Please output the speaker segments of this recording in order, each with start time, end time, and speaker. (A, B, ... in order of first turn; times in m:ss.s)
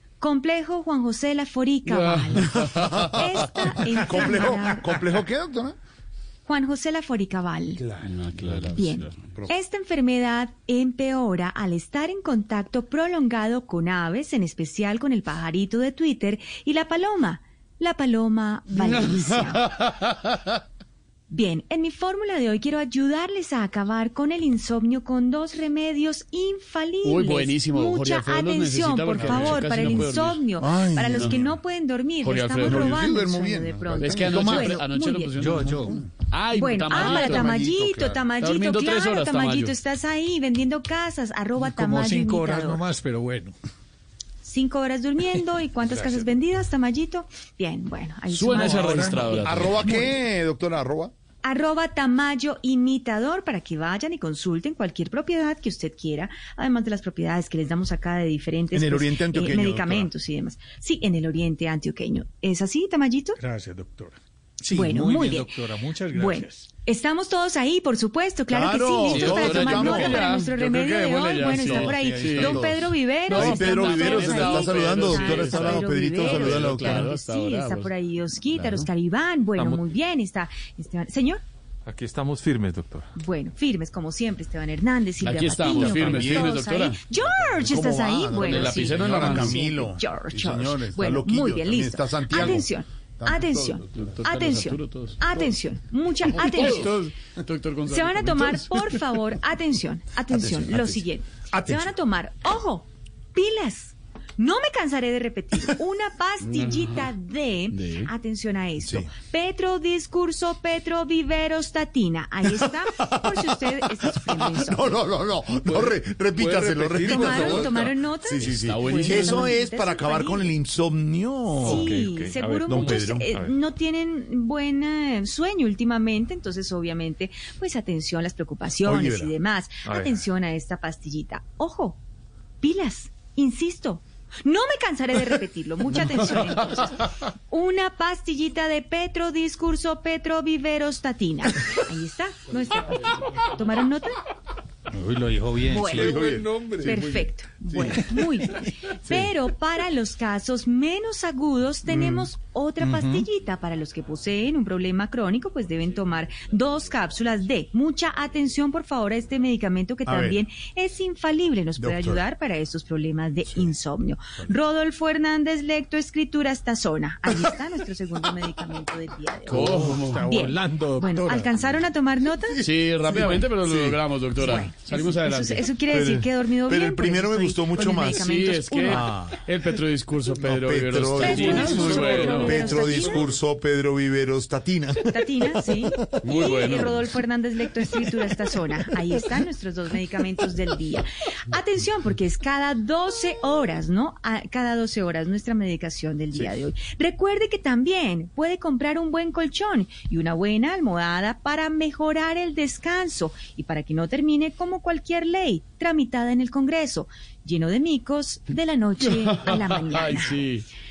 0:00.2-0:05.0 A
0:01.8-0:03.7 B
0:02.7-0:05.8 C
0:06.4-0:07.8 A
0:08.0-0:09.3 B
0:08.6-0:19.7 A
0:18.8-0:20.5 B
0:21.3-0:35.4 A
0:27.0-0:30.4 B
0:29.2-0:31.5 C
0:31.1-0:31.4 B
0:32.2-0:33.0 B
0:32.6-0:34.8 C
0:33.9-0:37.6 B
0:35.4-0:36.0 D
0:35.8-0:36.0 C
0:36.5-0:42.9 A
0:36.9-0:38.2 C
0:38.4-0:39.7 B
0:41.6-0:43.6 D
0:44.4-0:50.2 A
0:48.3-0:49.9 B
0:48.5-0:49.1 D
0:49.3-0:51.1 C
0:51.4-1:03.4 A
0:58.7-1:00.1 C
1:03.4-1:06.7 D
1:04.7-1:05.6 A
1:06.1-1:21.4 A
1:08.5-1:10.2 C
1:09.1-1:12.7 B
1:11.4-1:17.1 C
1:13.3-1:17.9 B
1:18.5-1:18.9 B
1:19.6-1:19.8 E
1:21.8-1:23.1 E
1:23.2-1:36.9 A
1:25.2-1:27.0 B
1:25.6-1:26.6 C
1:27.3-1:32.7 C
1:28.3-1:29.6 B
1:33.2-1:33.9 C
1:33.9-1:35.3 B
1:36.2-1:39.0 B
1:37.9-1:55.0 A
1:40.4-1:40.8 B
1:46.4-1:47.1 B
1:47.7-1:48.1 B
1:48.8-1:49.1 C
1:52.5-2:02.0 C
1:55.6-1:57.8 B
1:57.0-2:00.5 A
1:58.4-1:59.5 B
2:01.6-2:12.0 A
2:01.6-2:03.5 E
2:02.7-2:03.3 C
2:08.8-2:09.3 C
2:09.8-2:10.1 E
2:12.6-2:24.2 A
2:24.9-2:26.3 D
2:25.6-2:52.6 A
2:25.8-2:28.2 C
2:31.9-2:32.3 C
2:32.8-2:33.3 C
2:40.0-2:40.4 C
2:41.8-2:42.2 C
2:49.5-2:50.3 B
2:49.5-2:51.6 D
2:52.5-2:54.0 C
2:52.6-2:55.7 B
2:54.4-2:59.2 A
2:55.9-2:58.3 C
2:57.9-3:03.2 B
2:58.8-2:59.3 C
3:00.4-3:06.3 C
3:01.2-3:03.3 A
3:05.0-3:30.4 A
3:06.2-3:07.1 B
3:29.0-3:30.6 B